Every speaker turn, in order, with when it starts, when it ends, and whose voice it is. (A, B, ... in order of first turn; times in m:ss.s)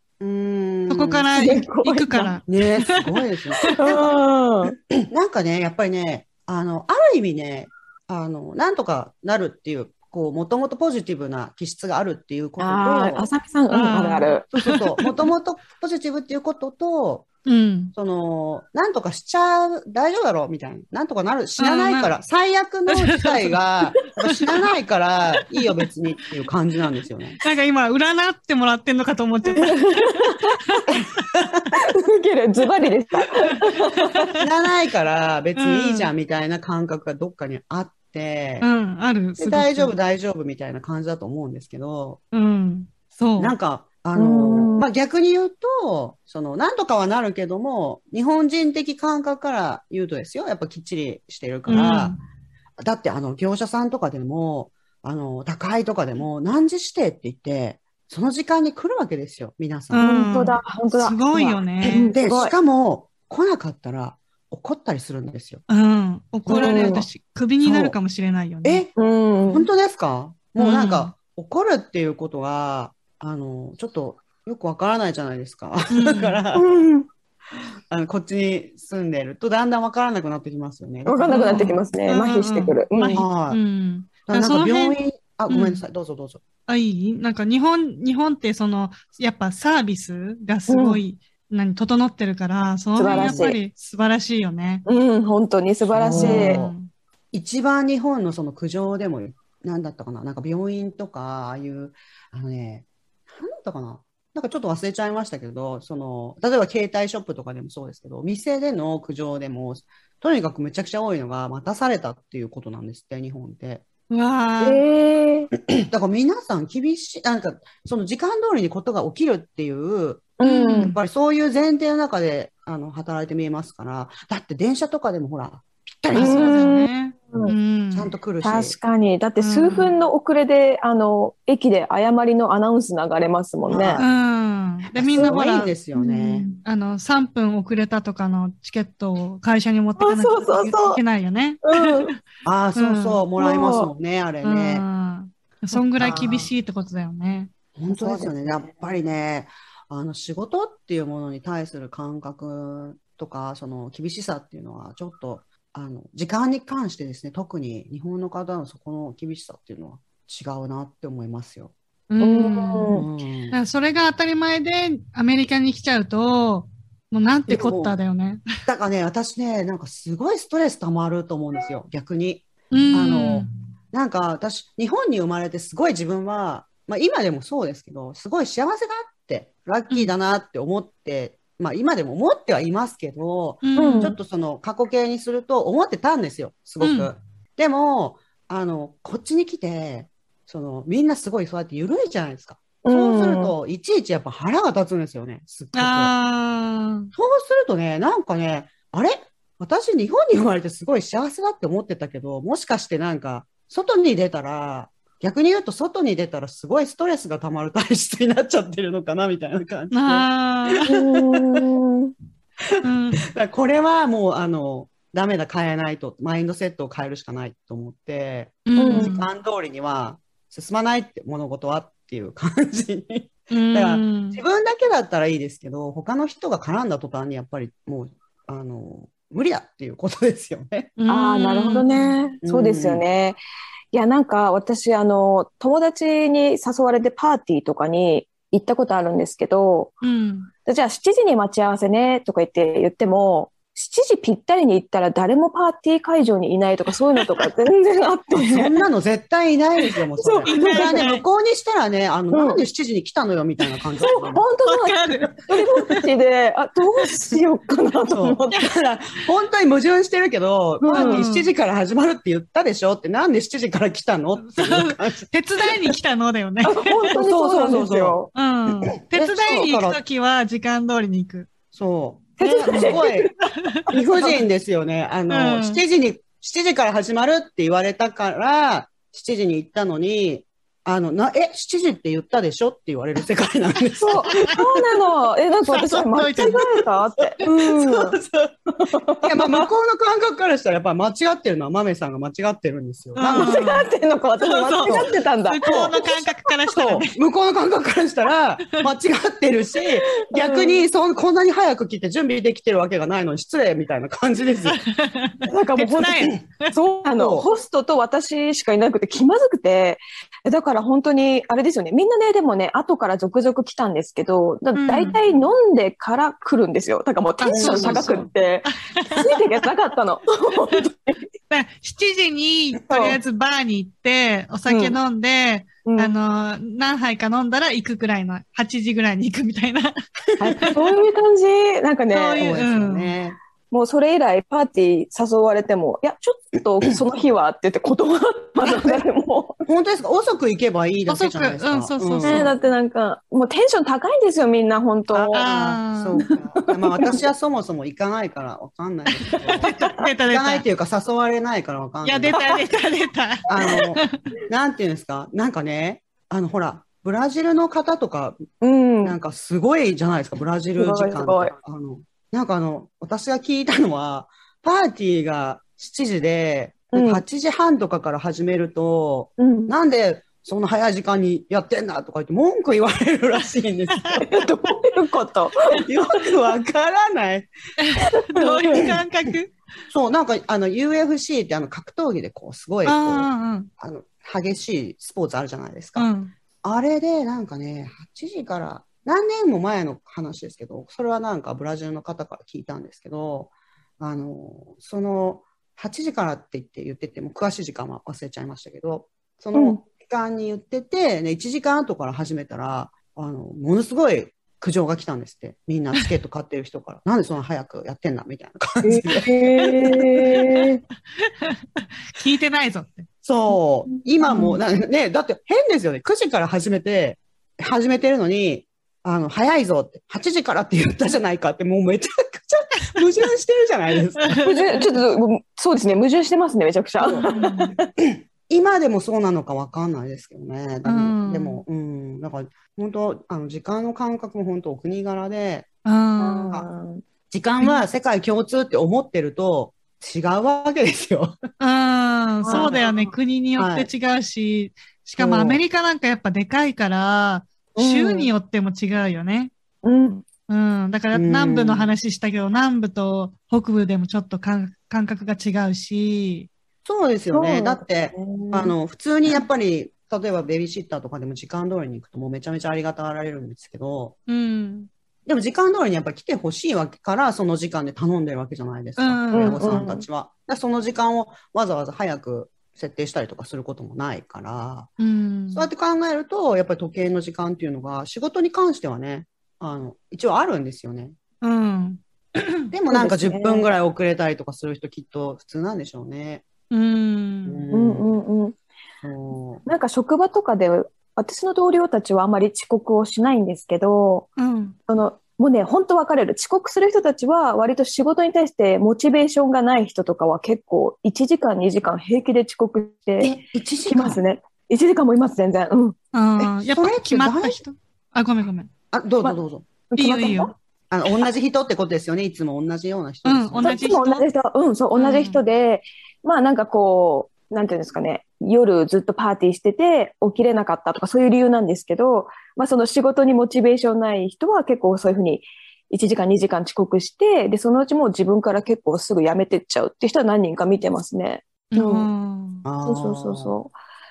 0:00.2-0:01.3 A
0:00.9-0:03.0 B
0:01.3-0:02.4 C
0:02.5-0:04.2 A
0:03.6-0:04.7 C
0:04.9-0:13.3 A
0:12.6-0:14.4 C
0:13.7-0:15.1 B
0:14.5-0:17.3 A
0:17.4-0:17.9 B
0:17.9-0:27.4 A
0:21.6-0:22.1 B
0:22.9-0:23.6 B
0:27.4-0:30.8 B
0:29.6-0:30.8 C
0:30.9-0:31.7 A
0:31.8-0:34.4 C
0:34.4-0:38.7 A
0:35.6-0:36.1 B
0:38.6-0:39.9 B
0:39.4-0:42.2 A
0:42.3-0:43.5 B
0:43.4-0:52.2 A
0:44.1-0:44.8 C
0:51.7-0:52.2 B
0:52.8-1:00.0 A
0:59.9-1:02.1 B
0:59.9-1:02.5 C
1:01.8-1:05.6 A
1:05.7-1:08.8 B
1:06.4-1:07.0 A
1:06.5-1:07.1 C
1:07.6-1:08.0 A
1:08.6-1:08.9 A
1:09.0-1:09.7 C
1:09.5-1:16.6 A
1:10.6-1:11.1 B
1:15.9-1:16.4 B
1:16.5-1:17.1 C
1:17.9-1:21.8 A
1:21.0-1:23.2 C
1:21.3-1:25.0 B
1:23.1-1:23.6 A
1:24.2-1:26.4 A
1:25.5-1:25.8 B
1:26.7-1:34.8 B
1:30.7-1:31.0 C
1:33.0-1:33.6 C
1:33.0-1:33.5 A
1:34.8-1:36.6 C
1:35.9-1:36.7 A
1:36.1-1:36.9 B
1:37.3-1:53.8 A
1:54.1-1:54.8 B
1:54.6-1:55.5 C
1:55.5-2:06.7 A
2:00.4-2:00.9 C
2:00.4-2:01.0 B
2:06.1-2:08.1 B
2:06.1-2:07.5 C
2:07.9-2:08.8 A
2:08.4-2:14.0 C
2:09.4-2:09.9 B
2:13.7-2:14.1 A
2:14.0-2:22.1 B
2:14.9-2:16.5 A
2:15.1-2:16.0 C
2:20.0-2:21.0 C
2:21.6-2:22.1 C
2:22.4-2:24.8 A
2:22.8-2:23.2 B
2:23.4-2:23.9 C
2:24.4-2:27.5 B
2:26.0-2:26.5 A
2:27.7-2:41.7 A
2:27.9-2:28.3 C
2:42.1-2:43.0 B
2:42.2-2:43.0 C
2:42.9-2:43.6 A
2:43.5-2:48.5 B
2:47.5-2:48.0 A
2:48.6-3:16.1 A
2:52.7-2:53.5 B
3:03.6-3:04.1 B
3:03.8-3:04.2 C
3:06.8-3:07.1 B
3:12.8-3:13.5 C
3:15.7-3:17.1 B
3:17.1-3:31.6 A
3:29.9-3:30.9 B
3:30.8-3:32.1 C
3:32.6-3:50.9 A
3:32.8-3:33.2 B
3:38.6-3:39.3 B
3:38.8-3:39.1 C
3:43.5-3:44.4 B
3:51.0-3:52.1 B
3:51.1-3:53.4 C
3:52.4-3:53.0 A
3:53.9-3:59.9 C
4:00.0-4:00.5 B
4:00.6-4:08.7 C
4:08.4-4:14.4 A
4:10.2-4:11.2 C
4:10.5-4:11.2 B
4:12.3-4:12.6 C
4:14.3-4:18.5 C
4:14.7-4:15.3 B
4:18.1-4:25.3 A
4:20.8-4:21.2 C
4:20.9-4:21.5 B
4:24.4-4:27.1 B
4:26.6-4:28.3 C
4:27.1-4:28.2 A
4:28.3-4:31.5 B
4:29.1-4:30.0 A
4:31.7-4:33.3 A
4:32.4-4:33.3 C
4:32.6-4:33.8 B
4:33.9-4:34.3 C
4:33.9-4:44.4 A
4:35.3-4:35.8 B
4:44.0-4:48.2 C
4:45.6-4:46.8 B
4:47.4-4:53.7 A
4:48.8-4:49.7 C
4:53.1-4:53.9 B
4:53.2-4:56.3 C
4:54.4-4:57.1 B
4:54.8-4:55.1 A
4:56.7-5:04.8 A
5:00.2-5:00.8 C
5:04.6-5:06.7 B
5:05.4-5:21.2 C
5:07.0-5:07.5 A
5:14.8-5:15.2 B
5:17.4-5:19.3 B
5:17.5-5:18.2 A
5:21.5-5:30.7 B
5:22.9-5:23.2 C
5:24.6-5:25.0 C
5:25.8-5:26.2 C
5:30.4-5:32.5 C
5:30.4-5:30.7 A
5:32.1-5:33.1 B
5:32.4-5:33.4 A
5:33.7-5:39.5 C
5:38.6-5:39.0 A
5:39.6-5:42.5 A
5:41.1-5:42.5 B
5:42.2-5:45.6 C
5:45.1-5:49.7 A
5:45.3-5:46.2 B
5:46.2-5:47.1 C
5:49.6-5:50.0 C
5:49.7-5:50.6 B
5:50.3-5:52.4 A
5:52.0-5:54.2 B
5:53.5-5:58.4 A
5:58.6-5:59.1 C
5:59.0-6:14.3 A
6:00.8-6:01.5 C
6:06.9-6:07.2 C
6:09.4-6:09.7 C
6:14.2-6:15.8 C
6:15.7-6:17.5 A
6:17.8-6:19.5 B
6:18.2-6:18.9 C
6:19.9-6:26.1 A
6:22.8-6:23.7 B
6:25.9-6:26.3 B
6:26.6-6:49.3 A
6:39.5-6:39.8 C
6:48.8-6:50.8 C
6:49.7-6:50.6 B
6:51.3-6:53.1 B
6:53.2-7:04.6 A
6:54.3-6:54.5 C
7:04.2-7:04.8 B
7:04.4-7:07.8 C
7:07.0-7:07.8 B
7:08.0-7:15.7 A
7:10.8-7:11.6 B
7:15.8-7:16.6 B
7:16.2-7:17.0 C
7:17.3-7:21.3 A
7:21.6-7:29.5 B
7:22.4-7:23.1 C
7:22.5-7:22.8 A
7:23.6-7:23.9 A
7:25.2-7:25.6 A
7:27.8-7:28.3 C
7:29.8-7:30.2 C
7:30.5-7:36.5 B
7:31.1-7:31.9 A
7:36.8-7:44.1 A
7:37.3-7:38.7 C
7:44.3-7:44.9 B
7:45.2-7:54.9 A
7:49.0-7:49.7 B
7:49.3-7:50.0 C
7:55.0-7:55.7 B
7:55.5-8:01.2 A
8:01.4-8:02.6 B
8:02.7-8:06.4 A
8:02.9-8:03.7 C
8:06.7-8:07.6 B
8:07.4-8:08.0 A
8:07.7-8:08.6 C
8:09.0-8:09.6 A
8:09.6-8:14.3 C
8:14.4-8:14.8 B
8:14.9-8:26.0 C
8:23.2-8:24.2 A
8:26.1-8:28.7 B
8:26.4-8:27.6 A
8:28.9-8:29.7 A
8:29.2-8:30.5 C
8:30.0-8:30.5 B
8:30.9-8:34.0 A
8:33.2-8:34.2 B
8:33.6-8:52.1 C
8:34.9-8:35.4 B
8:51.7-8:52.6 B
8:52.6-8:53.5 A
8:52.8-8:53.7 C